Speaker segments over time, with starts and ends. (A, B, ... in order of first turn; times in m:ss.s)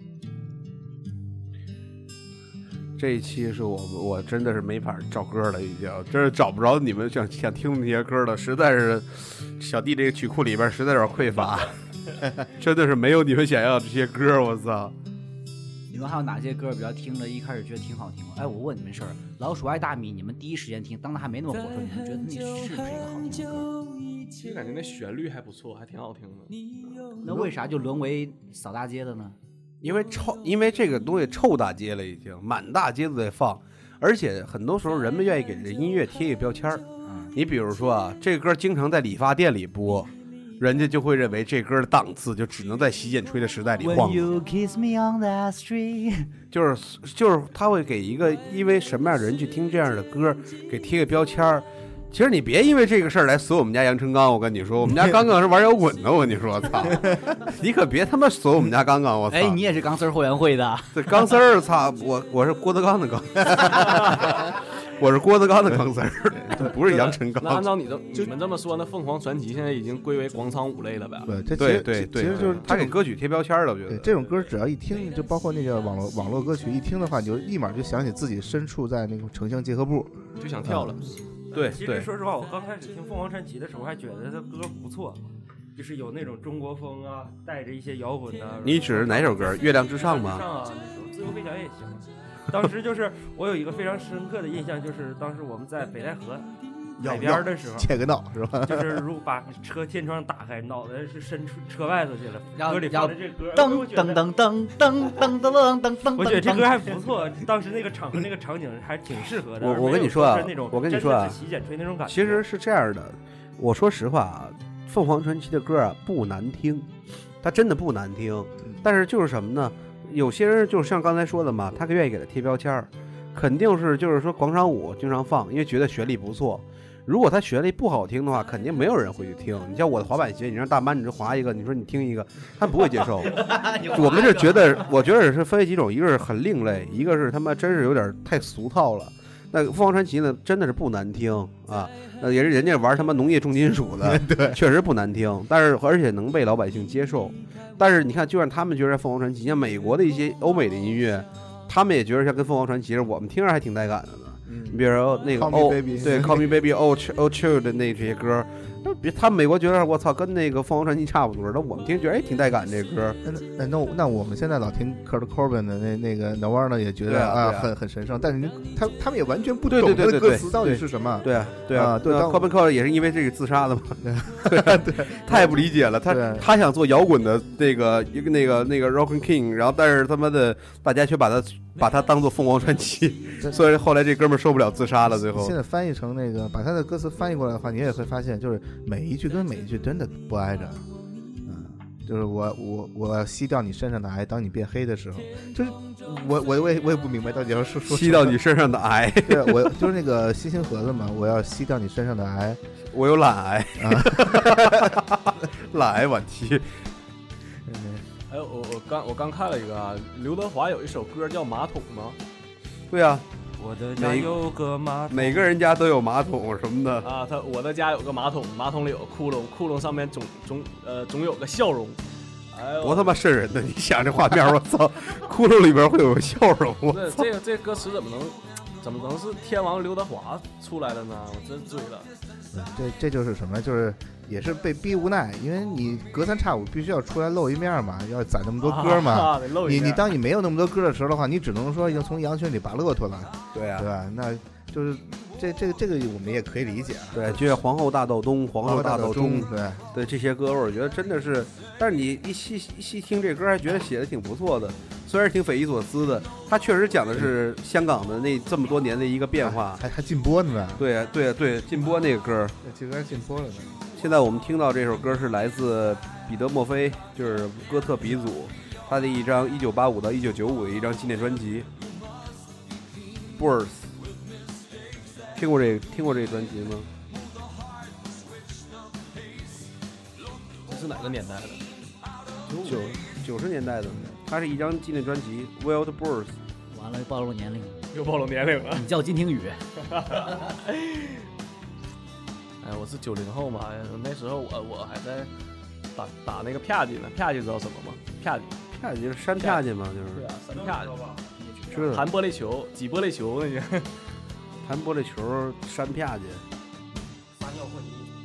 0:03.0-0:11.7 A
0:12.4-0:14.9 A
0:15.9-0:23.7 B
0:24.4-0:26.6 C
0:27.2-0:29.4 B
0:29.8-0:44.3 A
0:37.1-0:37.3 B
0:43.8-0:46.3 B
0:46.5-0:59.6 A
0:59.3-1:01.1 B
1:00.9-1:07.7 A
1:06.7-1:11.4 C
1:11.3-1:13.0 D
1:11.6-1:14.2 A
1:12.2-1:12.7 C
1:13.9-1:21.0 D
1:20.4-1:21.2 C
1:21.5-1:22.1 A
1:21.6-1:25.2 E
1:25.8-1:37.9 E
1:28.6-1:30.5 A
1:37.0-1:39.0 D
1:38.6-1:44.3 E
1:42.6-1:46.9 B
1:46.2-1:52.4 E
1:49.6-1:51.4 A
1:52.1-1:56.9 A
1:57.4-2:43.2 A
2:13.3-2:14.9 B
2:24.0-2:24.6 D
2:34.5-2:36.5 D
2:43.2-2:52.5 D
2:47.1-2:47.7 A
2:49.7-3:05.5 A
2:54.0-2:56.5 D
3:05.1-3:10.8 D
3:11.5-3:18.4 D
3:17.9-3:19.8 A
3:19.2-3:22.6 D
3:22.9-3:26.8 A
3:23.8-3:25.0 D
3:27.7-3:28.0 D
3:28.3-3:32.2 C
3:32.9-3:33.3 A
3:33.6-3:35.5 E
3:34.0-3:34.4 A
3:35.1-3:37.1 A
3:37.0-3:42.0 C
3:42.5-3:43.2 C
3:42.8-3:47.3 A
3:46.9-3:52.1 C
3:52.5-4:07.6 D
3:58.6-4:00.1 C
4:03.5-4:03.9 A
4:07.1-4:19.8 A
4:08.6-4:09.8 D
4:19.4-4:20.8 D
4:20.8-4:22.6 A
4:22.6-4:23.8 D
4:24.0-4:31.7 A
4:33.4-4:33.9 A
4:35.4-4:36.9 A
4:40.7-4:41.6 C
4:42.6-4:46.4 A
4:46.7-4:47.8 B
4:47.9-4:48.9 C
4:48.7-4:49.6 B
4:49.9-4:51.2 C
4:52.6-4:55.3 C
4:56.0-4:58.6 C
4:58.7-5:00.3 A
4:59.4-5:01.1 C
5:00.5-5:01.3 E
5:01.7-5:03.9 C
5:01.7-5:02.0 A
5:04.6-5:06.4 A
5:07.4-5:08.1 E